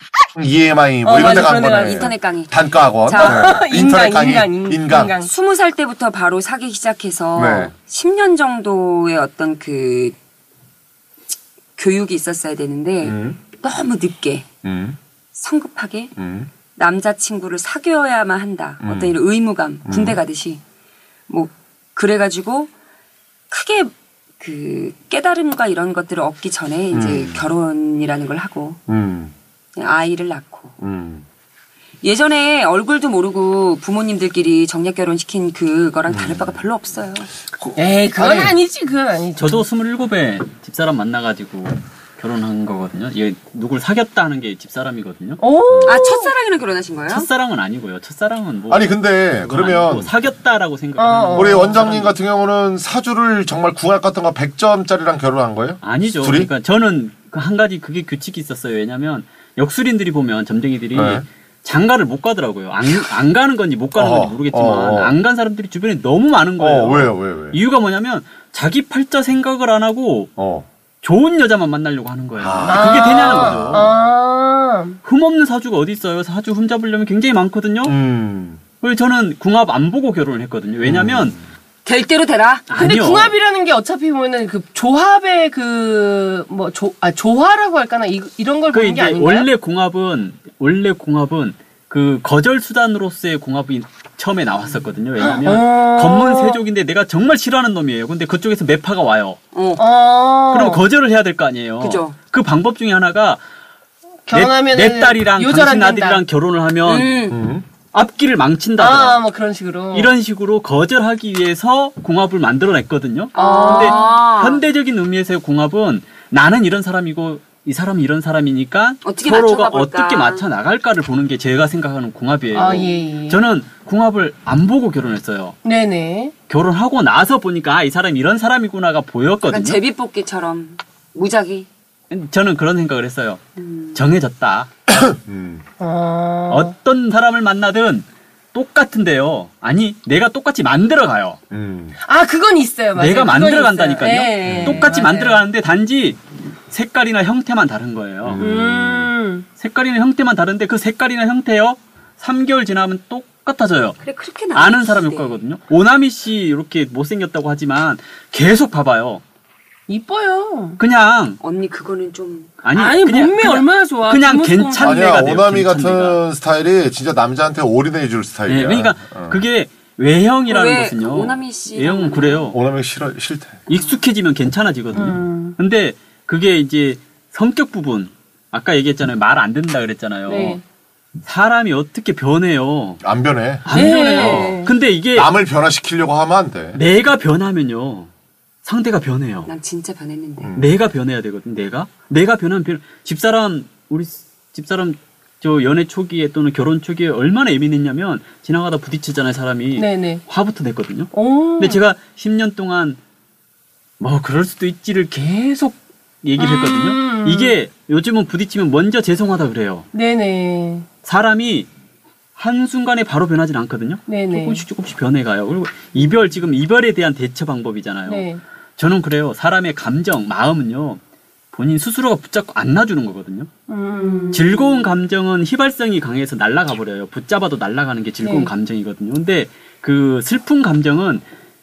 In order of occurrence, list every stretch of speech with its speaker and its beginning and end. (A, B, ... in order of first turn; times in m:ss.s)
0:00.3-0:05.2 A
0:01.0-0:02.1 B
0:01.1-0:03.6 C
0:03.1-0:05.3 B
0:05.2-0:10.2 C
0:07.3-0:07.7 A
0:11.8-0:14.5 C
0:13.0-0:13.4 A
0:14.6-0:15.0 A
0:15.3-0:16.1 C
0:16.2-0:16.5 A
0:16.7-0:20.6 C
0:18.8-0:19.2 A
0:19.8-0:20.2 A
0:21.3-0:22.7 C
0:23.5-0:28.8 C
0:26.9-0:27.5 A
0:28.9-0:29.3 A
0:29.8-0:30.7 C
0:30.8-0:31.2 A
0:32.0-0:37.3 C
0:36.1-0:36.6 A
0:37.5-0:38.6 A
0:37.7-0:39.7 B
0:39.4-0:45.4 D
0:45.4-0:46.3 B
0:45.7-0:46.0 A
0:45.8-0:47.3 C
0:47.1-0:52.2 D
0:48.7-0:50.1 A
0:51.0-0:51.8 B
0:51.3-0:56.5 A
0:55.8-1:10.3 D
1:00.9-1:01.2 A
1:03.9-1:05.2 A
1:06.6-1:07.6 A
1:10.4-1:10.7 A
1:11.0-1:13.9 D
1:12.4-1:14.1 A
1:12.6-1:15.0 B
1:15.0-1:17.9 D
1:17.8-1:18.6 A
1:18.8-1:21.4 D
1:20.8-1:21.4 A
1:21.8-1:22.7 C
1:22.7-1:23.3 D
1:22.7-1:29.5 B
1:28.7-1:39.4 D
1:35.3-1:36.6 B
1:39.5-1:39.8 C
1:39.8-1:40.8 B
1:40.5-1:43.4 D
1:41.8-1:42.2 C
1:44.3-1:46.2 B
1:44.3-1:47.2 D
1:46.8-1:47.4 C
1:47.3-1:47.6 A
1:47.9-1:49.2 D
1:48.8-1:50.1 B
1:49.9-2:05.6 D
1:53.3-1:54.6 C
1:53.3-1:54.0 B
1:59.0-2:00.5 C
2:02.5-2:03.4 B
2:02.6-2:02.8 C
2:05.6-2:06.3 B
2:06.5-2:09.8 D
2:09.5-2:11.7 C
2:12.1-2:13.4 D
2:13.6-2:14.0 C
2:13.9-2:14.7 D
2:14.9-2:15.6 A
2:15.8-2:16.7 B
2:16.5-2:21.4 D
2:21.5-2:22.0 A
2:22.0-2:25.4 B
2:23.0-2:28.5 D
2:24.4-2:24.8 A
2:28.2-2:29.1 A
2:28.4-2:29.4 B
2:29.6-2:34.0 D
2:34.0-2:35.4 C
2:34.5-2:39.2 D
2:39.9-2:40.8 B
2:40.8-2:41.4 D
2:41.4-2:42.6 C
2:42.6-2:46.2 D
2:42.7-2:45.3 B
2:44.8-2:49.4 A
2:48.5-2:52.6 D
2:50.5-2:52.5 C
2:52.5-2:53.6 A
2:53.7-3:00.6 D
2:54.9-2:55.5 B
3:00.3-3:00.6 B
3:01.2-3:03.0 D
3:03.0-3:06.8 A
3:03.6-3:05.3 D
3:03.7-3:04.7 B
3:06.7-3:08.1 D
3:08.6-3:09.5 D
3:09.4-3:10.5 C
3:10.4-3:10.8 A
3:10.5-3:23.0 D
3:19.7-3:20.2 B
3:21.1-3:21.8 B
3:24.0-3:29.9 D
3:26.4-3:27.6 B
3:29.9-3:30.9 B
3:31.0-3:31.7 D
3:32.4-3:41.0 D
3:34.0-3:34.6 B
3:38.0-3:38.4 B
3:41.5-3:43.5 D
3:43.7-3:44.6 B
3:44.3-3:51.2 D
3:48.2-3:48.5 B